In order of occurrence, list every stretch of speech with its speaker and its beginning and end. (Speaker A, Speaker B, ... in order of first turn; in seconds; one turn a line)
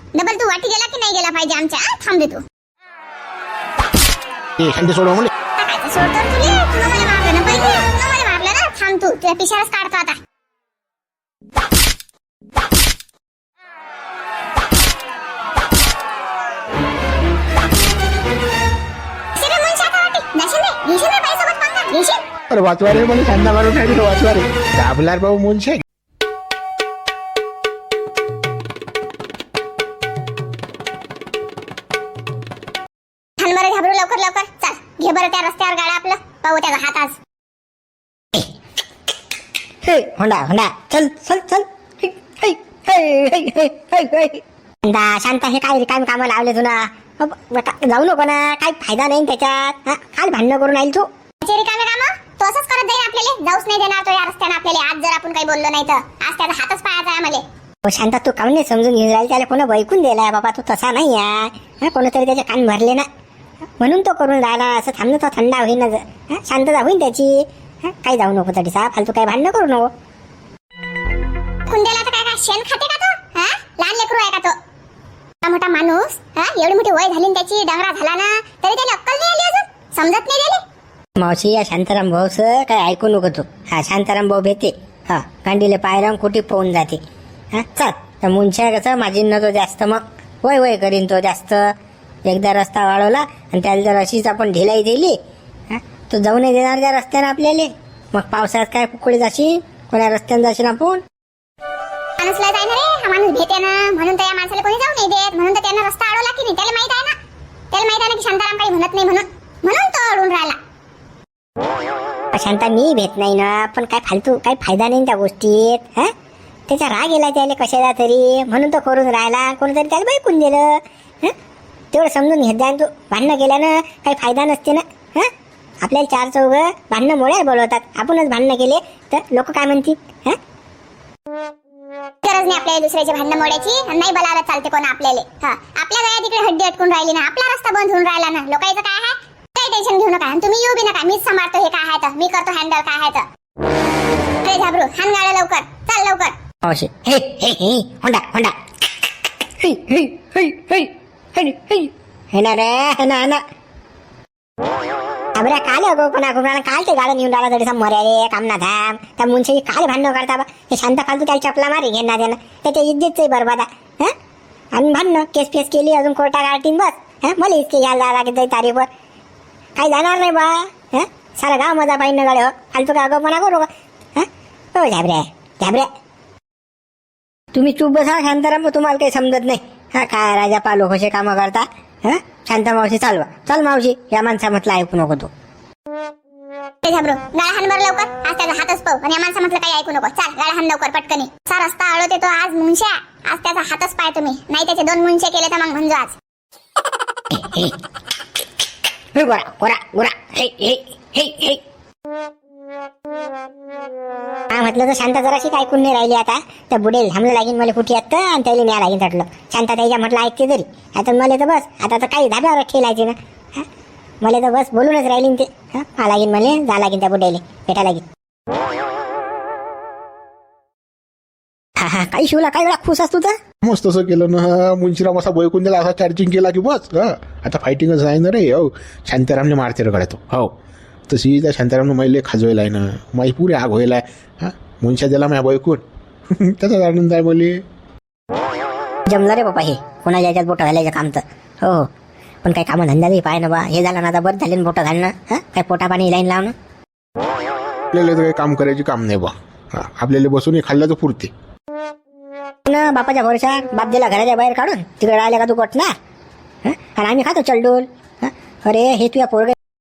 Speaker A: 0.1-2.4
Speaker B: 4.6-5.3
Speaker A: 5.6-10.2
Speaker A: 19.4-22.2
Speaker B: 22.5-25.8
Speaker A: 33.4-37.2
Speaker C: 39.8-51.1
Speaker A: 51.4-57.4
Speaker C: 57.9-63.1
Speaker C: 63.8-69.9
Speaker A: 71.7-74.5
Speaker A: 75.4-80.6
Speaker C: 81.2-87.0
Speaker C: 87.5-91.6
Speaker C: 92.3-95.2
Speaker C: 95.7-101.0
Speaker A: 102.2-107.2
Speaker A: 107.7-110.6
Speaker C: 112.3-116.1
Speaker C: 116.7-121.3
Speaker C: 121.9-125.3
Speaker C: 125.8-130.4
Speaker A: 132.2-143.3
Speaker A: 144.4-146.3
Speaker C: 146.6-148.6
Speaker C: 149.6-153.4
Speaker C: 155.4-164.1
Speaker C: 164.7-168.9
Speaker C: 169.8-175.9
Speaker C: 177.5-185.3
Speaker A: 186.8-196.2
Speaker C: 197.3-197.7
Speaker C: 199.2-201.6
Speaker C: 204.5-213.7
Speaker C: 214.2-218.1
Speaker C: 221.8-223.3
Speaker B: 223.6-230.5
Speaker B: 231.1-235.8
Speaker B: 236.4-237.6
Speaker C: 239.1-241.9
Speaker C: 242.4-246.5
Speaker B: 247.9-251.3
Speaker C: 252.7-255.9
Speaker C: 256.6-259.6